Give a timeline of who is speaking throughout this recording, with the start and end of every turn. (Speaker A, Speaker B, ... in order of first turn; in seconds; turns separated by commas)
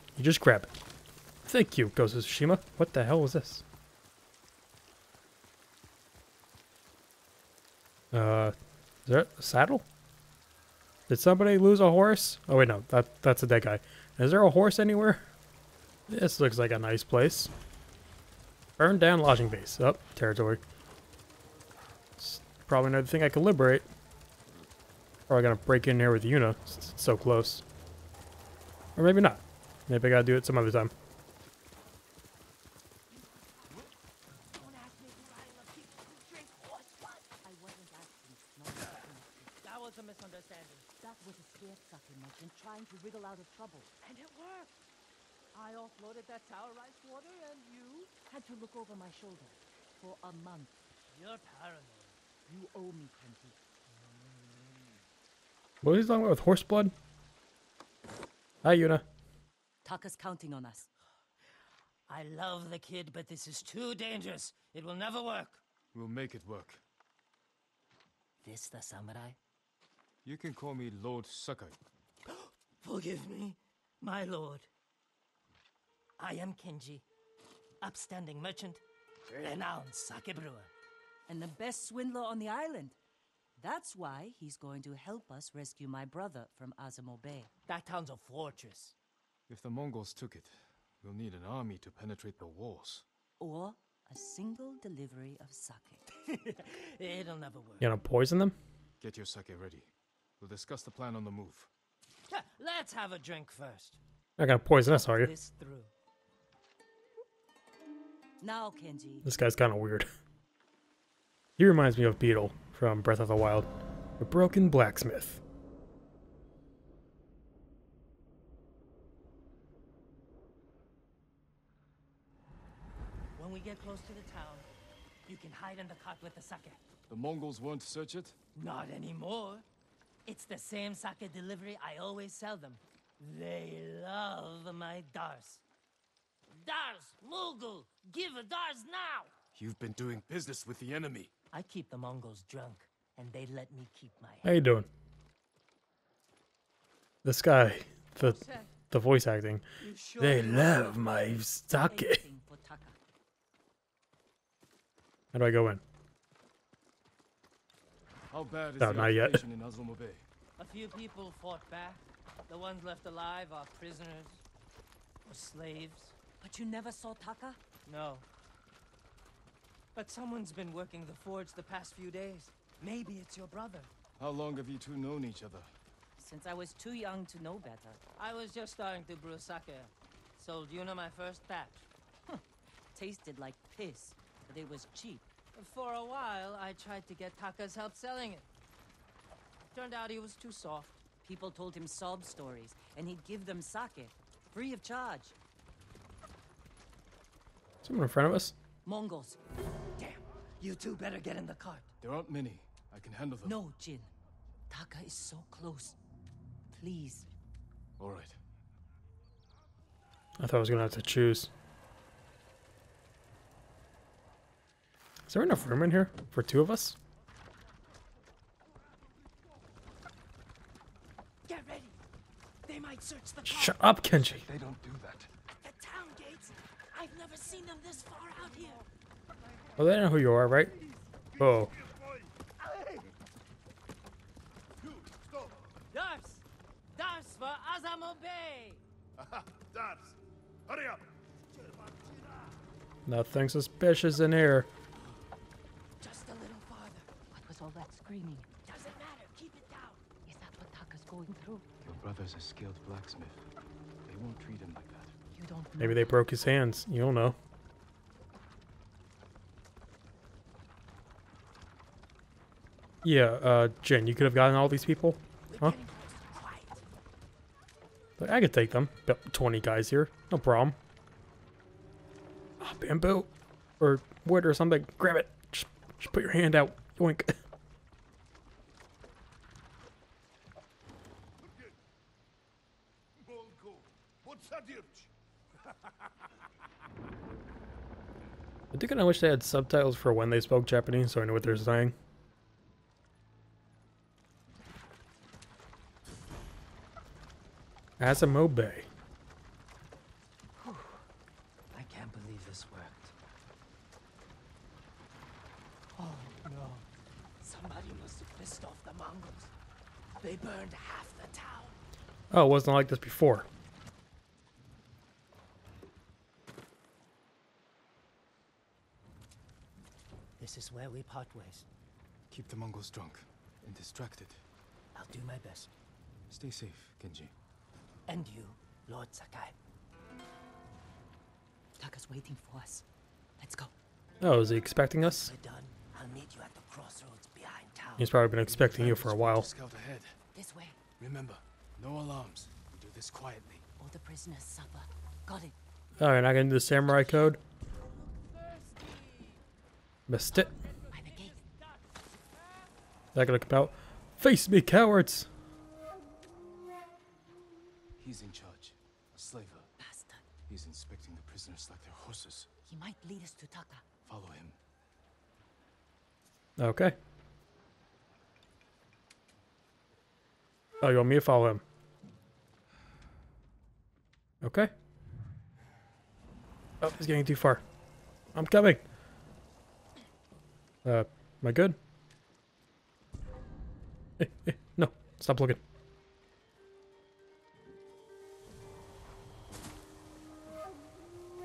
Speaker A: 0.2-0.7, Speaker A: 1.5-3.6, Speaker A: 8.1-8.6, Speaker A: 9.1-9.9, Speaker A: 11.1-15.3, Speaker A: 16.1-17.5, Speaker A: 18.8-20.6, Speaker A: 22.2-23.9, Speaker A: 25.3-27.6, Speaker A: 29.0-30.9, Speaker B: 34.6-37.3, Speaker C: 37.4-39.5, Speaker B: 39.6-40.9, Speaker C: 41.0-44.0, Speaker B: 44.0-44.7, Speaker B: 45.5-48.1, Speaker C: 48.2-50.8, Speaker B: 51.1-52.2, Speaker C: 52.5-53.6, Speaker B: 54.1-54.7, Speaker A: 55.8-56.9, Speaker A: 58.6-59.0, Speaker C: 59.8-60.9, Speaker B: 62.1-65.6, Speaker D: 65.9-66.8, Speaker B: 68.4-69.4, Speaker D: 70.2-71.8, Speaker B: 72.3-74.7, Speaker B: 76.2-77.0, Speaker B: 77.8-80.7, Speaker C: 81.3-83.0, Speaker C: 83.6-87.5, Speaker B: 87.7-89.0, Speaker D: 89.5-93.0, Speaker C: 93.4-96.1, Speaker B: 96.3-97.9, Speaker A: 97.8-98.6, Speaker D: 99.0-101.7, Speaker B: 102.3-104.0, Speaker A: 104.4-105.3, Speaker B: 105.1-105.9, Speaker C: 108.4-109.3, Speaker A: 109.2-110.1, Speaker A: 111.6-115.4, Speaker B: 123.4-124.7, Speaker B: 125.3-126.8, Speaker D: 127.1-128.4, Speaker B: 128.6-129.7, Speaker B: 130.3-135.6, Speaker B: 136.5-139.3, Speaker D: 139.5-141.3, Speaker B: 141.5-144.5, Speaker A: 144.4-144.9, Speaker A: 147.2-149.6, Speaker B: 148.2-148.7, Speaker B: 149.8-151.0, Speaker A: 150.2-152.2, Speaker C: 151.8-153.0, Speaker A: 155.3-155.8, Speaker D: 158.3-160.2, Speaker A: 158.8-159.4, Speaker B: 160.6-164.4, Speaker B: 165.3-166.2, Speaker C: 166.4-167.6, Speaker B: 167.9-168.2, Speaker B: 169.9-173.9, Speaker D: 174.2-175.7, Speaker C: 176.2-178.0, Speaker B: 178.2-181.9, Speaker C: 182.9-185.3, Speaker B: 185.6-188.4, Speaker B: 189.7-191.0, Speaker C: 191.2-195.3, Speaker A: 197.8-198.6, Speaker C: 198.8-199.4, Speaker B: 200.0-201.9, Speaker D: 202.0-203.6, Speaker C: 203.4-204.1, Speaker C: 204.7-206.0, Speaker C: 206.7-207.3, Speaker D: 208.0-208.4, Speaker A: 210.4-211.5, Speaker A: 215.3-217.0, Speaker B: 221.5-222.0, Speaker B: 222.7-223.8, Speaker A: 223.4-224.4, Speaker D: 224.2-225.3, Speaker B: 225.6-228.8, Speaker A: 229.8-230.7, Speaker A: 231.4-231.7, Speaker E: 231.8-232.2, Speaker B: 232.6-233.1, Speaker E: 234.8-235.6, Speaker B: 235.9-236.4, Speaker B: 236.9-238.8, Speaker E: 239.5-240.1, Speaker E: 240.7-241.0, Speaker A: 243.1-244.7, Speaker B: 246.0-247.1, Speaker C: 247.3-248.6, Speaker B: 248.7-250.0, Speaker C: 250.2-251.7, Speaker D: 251.8-253.4, Speaker D: 254.1-255.2, Speaker C: 255.3-256.2, Speaker A: 255.8-257.4, Speaker A: 263.0-265.8, Speaker B: 265.5-266.8, Speaker A: 268.2-270.8, Speaker A: 272.6-277.4, Speaker E: 283.3-285.1, Speaker A: 288.7-291.9, Speaker A: 298.0-298.9, Speaker B: 300.6-300.9, Speaker B: 301.7-303.1, Speaker B: 306.0-306.9, Speaker B: 307.4-309.5, Speaker B: 310.2-311.8, Speaker A: 312.3-313.5, Speaker B: 320.4-321.7, Speaker D: 322.3-324.4, Speaker B: 324.9-325.7, Speaker D: 326.3-327.3, Speaker B: 328.1-329.6, Speaker C: 331.8-332.9, Speaker C: 333.4-333.7, Speaker A: 334.2-335.3, Speaker B: 335.0-338.1, Speaker A: 338.0-339.5, Speaker D: 338.4-340.2, Speaker C: 340.4-340.8, Speaker D: 341.0-343.6, Speaker C: 343.8-345.6, Speaker A: 346.0-347.4, Speaker B: 348.8-349.1, Speaker A: 350.1-350.5, Speaker B: 350.6-351.6, Speaker C: 350.9-351.4, Speaker A: 353.1-355.3, Speaker D: 358.0-359.7, Speaker C: 359.8-360.3, Speaker D: 360.5-362.5, Speaker C: 362.7-363.9, Speaker D: 364.1-364.6, Speaker A: 366.6-367.0, Speaker A: 370.8-371.6, Speaker A: 374.4-374.7, Speaker A: 376.8-377.6, Speaker A: 378.4-378.8, Speaker A: 380.9-381.8, Speaker A: 384.2-385.6